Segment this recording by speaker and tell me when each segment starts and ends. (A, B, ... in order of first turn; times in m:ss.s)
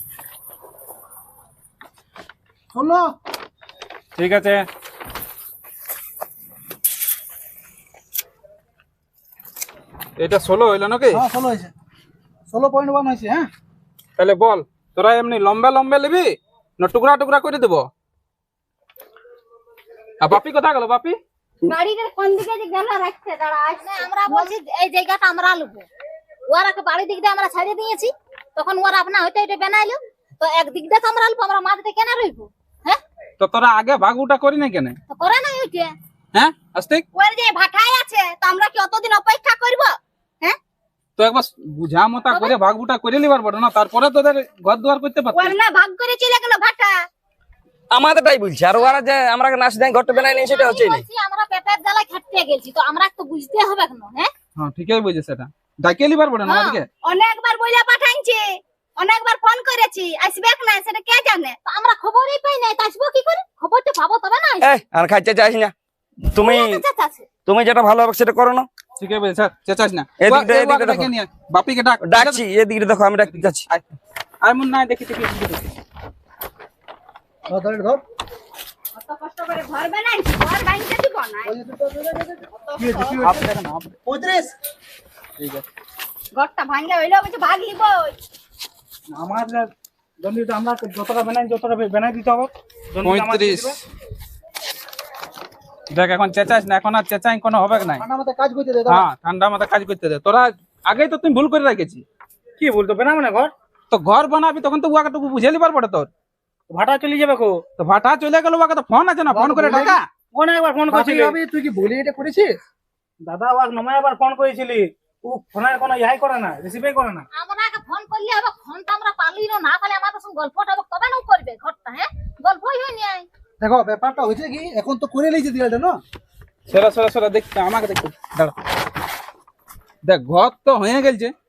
0:02.7-0:03.1 A
0:04.2-0:04.7 B
0:10.2-0:11.2 B
0:11.1-0:11.7 A
0:12.5-0:13.5 A
0:14.2-0:17.9 B
0:20.2-0:21.2 B
0:21.7-0:24.5 C
0:23.8-0:25.9 D
0:26.5-0:33.0 D
0:33.4-0:35.0 B
0:35.1-0:35.9 D
0:36.3-0:37.0 B
0:37.2-0:40.6 C
0:41.2-0:45.6 B
0:45.3-0:47.0 C
0:47.9-0:51.0 E
0:50.2-0:54.3 D
0:54.6-0:56.8 B
0:56.5-0:56.8 D
0:57.0-1:01.6 C
1:01.6-1:04.7 D
1:04.6-1:05.7 E
1:06.3-1:06.8 E
1:06.4-1:07.3 D
1:07.5-1:08.7 E
1:09.0-1:12.4 B
1:10.2-1:11.1 E
1:12.0-1:13.7 E
1:13.2-1:13.9 B
1:14.4-1:15.7 B
1:17.5-1:18.0 A
1:18.9-1:21.5 C
1:21.4-1:23.5 A
1:22.7-1:23.1 C
1:23.2-1:24.0 B
1:24.0-1:24.5 A
1:25.4-1:25.6 B
1:26.4-1:28.2 C
1:29.1-1:29.7 F
1:30.2-1:33.8 F
1:33.0-1:33.7 B
1:35.9-1:38.0 B
1:37.8-1:39.1 A
1:38.9-1:42.0 B
1:42.6-1:43.5 F
1:43.9-1:46.1 B
1:46.7-1:47.5 F
1:47.8-1:50.0 B
1:49.3-1:50.0 A
1:50.3-1:51.4 F
1:50.9-1:52.5 A
1:53.3-1:57.3 F
1:57.3-2:03.3 D
2:03.6-2:06.0 A
2:06.7-2:08.6 B
2:10.0-2:11.3 B